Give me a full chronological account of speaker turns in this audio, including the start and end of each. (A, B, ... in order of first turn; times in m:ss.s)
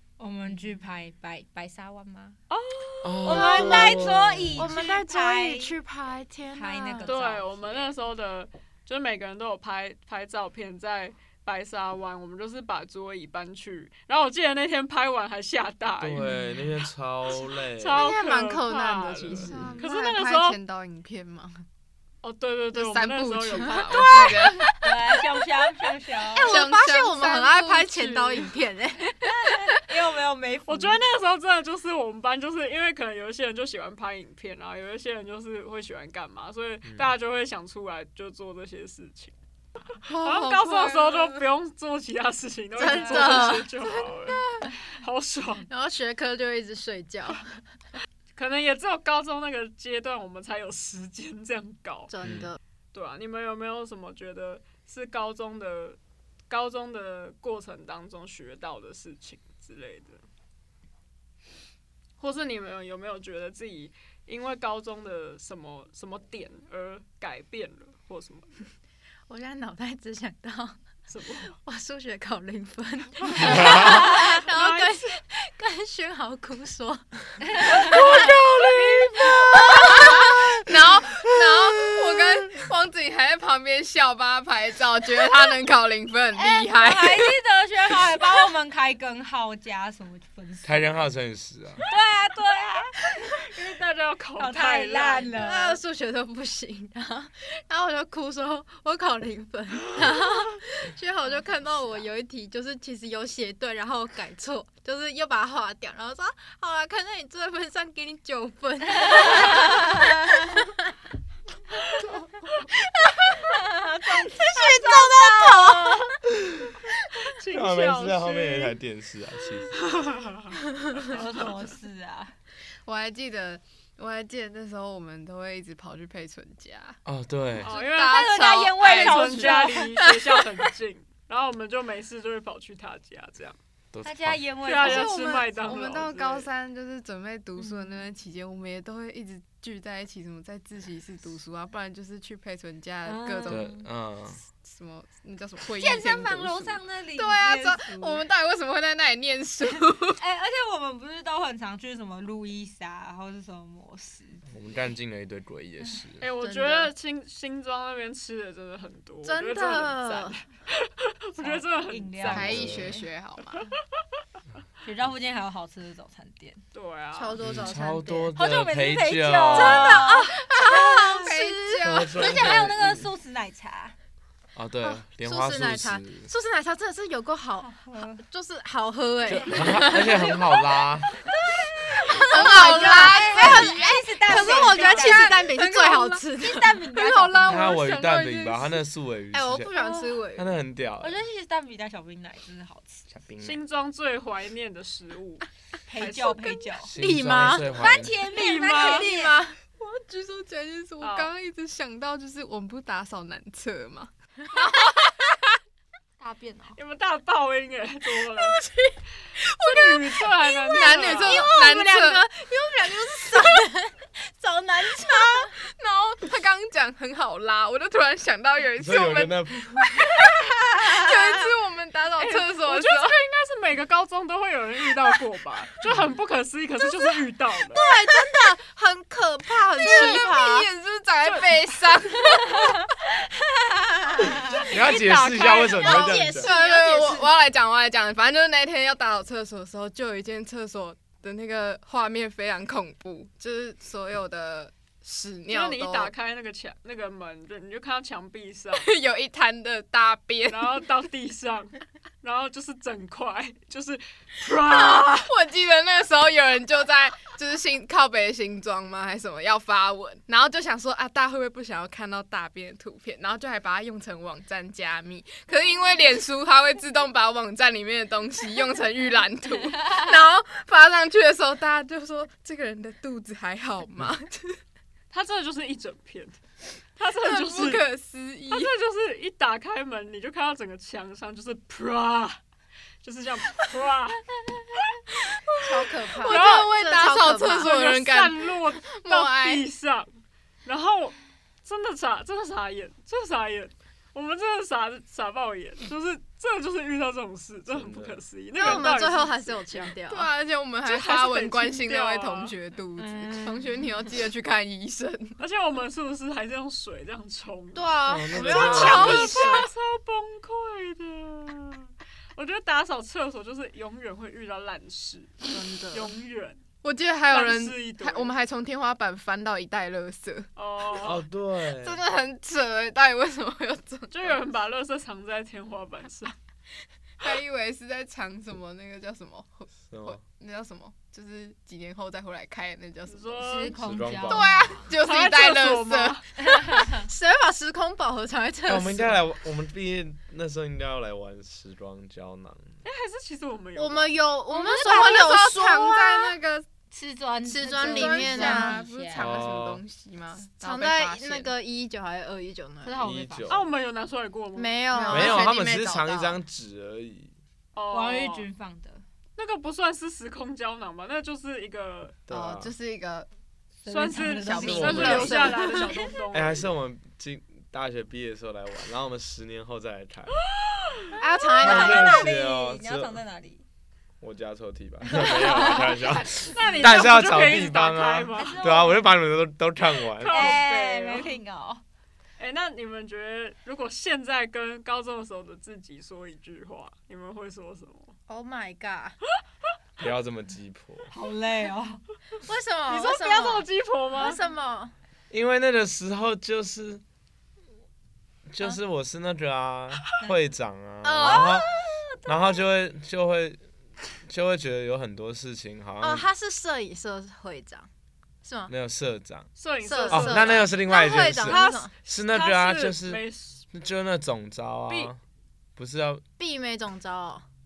0:00.2-0:02.4 A
0:02.5-0:04.1 B
0:03.0-0:04.7 C
0:03.2-0:05.8 A
0:04.6-0:07.1 D
0:06.5-0:07.9 A
0:07.1-0:16.3 B
0:16.0-0:18.1 C
0:17.8-0:20.6 B
0:18.0-0:19.5 D
0:18.0-0:21.6 E
0:22.2-0:24.5 B
0:22.7-0:24.8 E
0:24.8-0:26.6 A
0:26.3-0:29.6 D
0:26.4-0:28.4 E
0:29.2-0:31.0 A
0:30.7-0:39.3 B
0:40.0-0:41.4 E
0:40.1-0:45.7 B
0:42.8-0:43.7 D
0:43.8-0:44.7 E
0:45.7-0:47.5 D
0:48.4-0:52.1 B
0:52.1-0:52.6 D
0:52.2-0:52.5 C
0:52.9-0:56.0 B
0:56.5-1:00.2 B
1:02.2-1:08.6 B
1:09.3-1:10.8 D
1:11.1-1:11.5 B
1:11.5-1:18.3 D
1:13.3-1:15.0 B
1:17.6-1:18.2 A
1:17.7-1:19.5 B
1:18.9-1:27.4 E
1:19.2-1:20.5 D
1:26.4-1:31.0 A
1:30.6-1:31.8 C
1:31.8-1:33.8 A
1:33.6-1:35.4 B
1:34.4-1:35.8 A
1:35.4-1:49.9 D
1:49.1-1:49.8 A
1:50.5-1:50.7 D
1:53.0-1:56.2 D
1:53.6-1:56.1 A
1:57.2-1:58.8 B
1:57.5-2:00.0 C
1:59.8-2:00.6 B
2:01.0-2:02.3 A
2:02.8-2:07.0 E
2:07.1-2:07.7 C
2:07.6-2:10.4 E
2:07.6-2:08.3 B
2:08.0-2:10.0 A
2:08.8-2:13.6 B
2:13.9-2:14.4 C
2:14.0-2:15.9 A
2:14.6-2:16.5 B
2:14.8-2:23.7 E
2:17.6-2:17.9 A
2:23.0-2:23.9 A
2:23.5-2:24.4 C
2:24.5-2:30.2 E
2:25.8-2:28.2 A
2:30.1-2:34.5 A
2:34.5-2:36.2 C
2:36.2-2:42.7 B
2:36.4-2:36.9 D
2:39.3-2:40.4 D
2:41.4-2:43.0 A
2:42.2-2:43.7 E
2:42.3-2:43.0 C
2:44.8-2:46.6 A
2:46.7-2:47.4 B
2:47.2-2:48.3 D
2:47.4-2:50.0 C
2:48.4-2:51.1 A
2:49.5-2:51.9 D
2:50.5-2:52.7 E
2:51.8-2:53.1 C
2:52.1-2:54.0 A
2:54.6-2:56.3 C
2:54.8-3:00.7 D
2:57.6-2:58.2 A
2:59.3-3:01.1 C
2:59.5-3:00.3 A
3:02.1-3:06.9 D
3:02.2-3:05.5 A
3:02.2-3:08.8 E
3:06.4-3:07.7 A
3:07.4-3:09.7 C
3:09.3-3:10.6 D
3:09.8-3:10.2 A
3:10.4-3:11.2 C
3:11.0-3:13.2 A
3:13.1-3:13.6 C
3:13.4-3:16.6 B
3:15.9-3:17.0 A
3:16.8-3:18.2 C
3:17.0-3:19.6 D
3:17.6-3:19.4 A
3:18.3-3:19.1 B
3:19.7-3:25.4 E
3:21.0-3:21.3 B
3:26.2-3:26.8 A
3:26.8-3:28.6 B
3:28.4-3:32.2 E
3:29.6-3:31.4 B
3:30.7-3:35.5 D
3:35.0-3:43.2 E
3:38.8-3:39.9 C
3:42.2-3:47.9 B
3:47.7-3:50.7 D
3:49.8-3:52.9 E
3:51.2-3:51.6 B
3:54.2-3:54.6 A
3:54.6-3:56.2 B
3:54.6-3:56.5 C
3:55.7-3:57.3 D
3:56.1-4:06.1 E
4:05.5-4:08.9 B
4:08.8-4:10.8 E
4:10.5-4:15.3 B
4:14.6-4:34.6 E
4:35.1-4:36.4 B
4:37.0-4:37.8 B
4:37.2-4:38.8 E
4:38.5-4:42.4 B
4:43.0-4:45.0 B
4:45.2-4:49.7 E
4:45.6-4:47.7 D
4:46.3-4:46.7 B
4:47.5-4:50.1 B
4:50.6-4:59.9 B
4:57.7-4:58.2 C
4:58.6-5:00.3 D
5:00.1-5:05.4 E
5:00.8-5:02.6 B
5:03.0-5:03.9 A
5:05.4-5:16.6 B
5:07.8-5:09.7 D
5:08.1-5:09.4 C
5:08.6-5:09.5 E
5:15.5-5:16.1 D
5:16.8-5:20.5 E
5:17.3-5:18.3 B
5:20.6-5:21.2 B
5:21.0-5:22.0 C
5:21.7-5:24.4 E
5:24.1-5:26.4 B
5:27.2-5:33.7 E
5:29.9-5:30.2 C
5:33.1-5:33.8 B
5:33.4-5:34.9 A
5:33.8-5:34.5 C
5:34.2-5:36.6 E
5:34.9-5:36.2 B
5:36.4-5:37.0 A
5:36.8-5:39.2 D
5:38.7-5:42.8 C
5:42.8-5:44.2 B
5:43.8-5:46.4 D
5:44.5-5:46.7 E
5:44.8-5:45.4 A
5:46.9-5:49.4 A
5:47.4-5:48.8 D
5:47.7-5:51.5 E
5:49.1-5:49.8 C
5:50.6-5:53.0 D
5:52.8-5:53.6 A
5:53.0-5:53.7 C
5:53.5-5:54.8 B
5:54.6-5:56.4 D
5:54.9-5:55.8 E
5:55.1-5:57.3 C
5:57.7-5:58.5 B
5:57.9-5:59.0 A
5:59.4-6:02.2 B
6:02.3-6:02.7 C
6:02.3-6:03.3 E
6:03.8-6:06.2 A
6:03.9-6:06.7 B
6:04.1-6:05.8 E
6:04.6-6:05.3 C
6:04.9-6:06.0 D
6:06.3-6:10.4 C
6:10.5-6:11.0 B
6:11.2-6:12.3 D
6:11.5-6:13.6 A
6:11.6-6:13.2 C
6:14.2-6:20.6 C
6:15.1-6:15.9 A
6:15.4-6:18.7 B
6:18.3-6:19.1 A
6:20.2-6:21.4 B
6:20.2-6:21.8 A
6:22.4-6:28.2 B
6:28.3-6:29.2 D
6:30.0-6:31.1 C
6:31.1-6:32.0 A
6:32.4-6:34.9 D
6:32.9-6:34.4 B
6:35.3-6:37.0 C
6:38.5-6:41.7 C
6:41.0-6:41.6 D
6:41.2-6:42.4 A
6:42.2-6:43.6 C
6:44.2-6:46.3 C
6:46.0-6:47.9 D
6:48.4-6:48.7 D
6:48.7-6:49.5 C
6:49.6-6:50.7 B
6:49.8-6:51.9 D
6:50.1-6:55.2 C
6:51.5-6:51.9 A
6:52.3-6:53.7 B
6:55.8-6:56.2 C
6:56.4-6:57.4 D